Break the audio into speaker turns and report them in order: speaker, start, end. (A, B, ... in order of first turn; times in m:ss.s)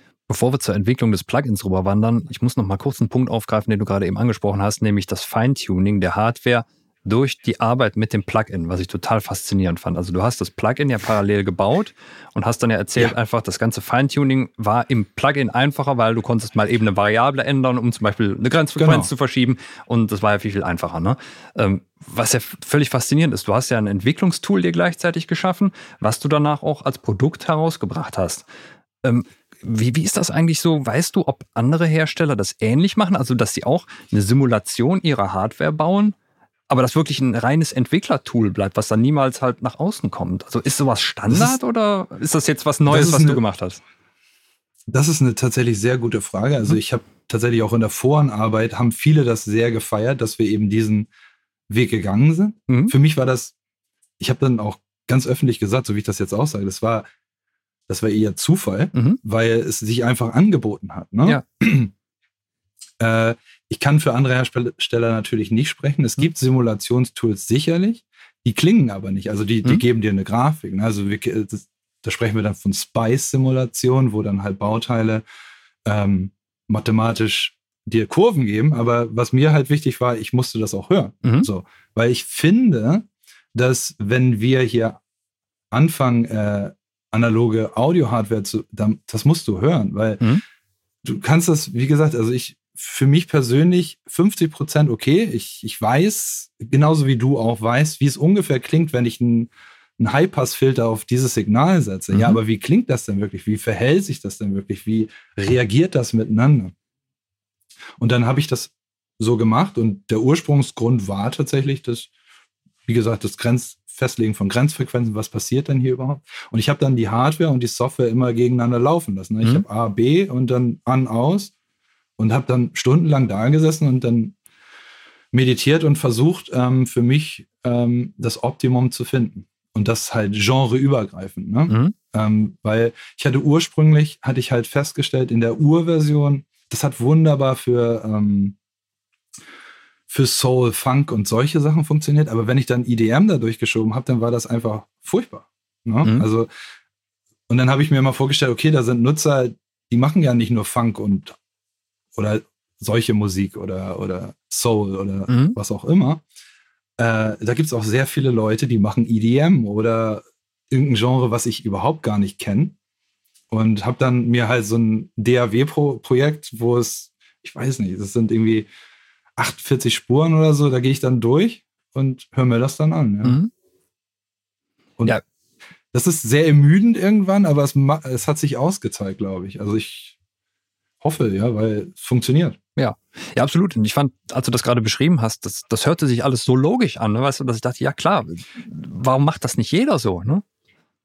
0:00.3-0:28.4 A
0:18.8-0:19.1 B
0:29.0-0:36.2 A
0:36.7-0:43.8 A
0:41.3-0:41.6 B
0:42.9-0:43.4 B
0:44.9-0:51.1 B
0:51.7-0:53.5 B
0:52.7-0:52.9 A
0:54.2-0:57.1 B
0:57.9-1:01.9 B
0:59.0-0:59.2 A
1:03.0-1:15.2 B
1:15.8-1:25.0 B
1:21.2-1:21.5 A
1:25.7-1:30.3 B
1:31.0-1:46.7 B
1:42.1-1:42.4 A
1:48.0-1:52.1 B
1:52.9-2:01.5 B
2:02.2-2:04.4 B
2:05.3-2:18.6 B
2:11.7-2:12.0 A
2:20.1-2:26.5 B
2:27.5-2:31.4 B
2:32.2-2:36.2 B
2:35.3-2:35.6 A
2:37.0-2:42.8 B
2:43.5-2:48.7 B
2:49.4-2:53.4 B
2:53.2-2:53.5 A
2:55.9-3:00.2 B
3:01.0-3:02.6 B
3:02.8-3:10.4 A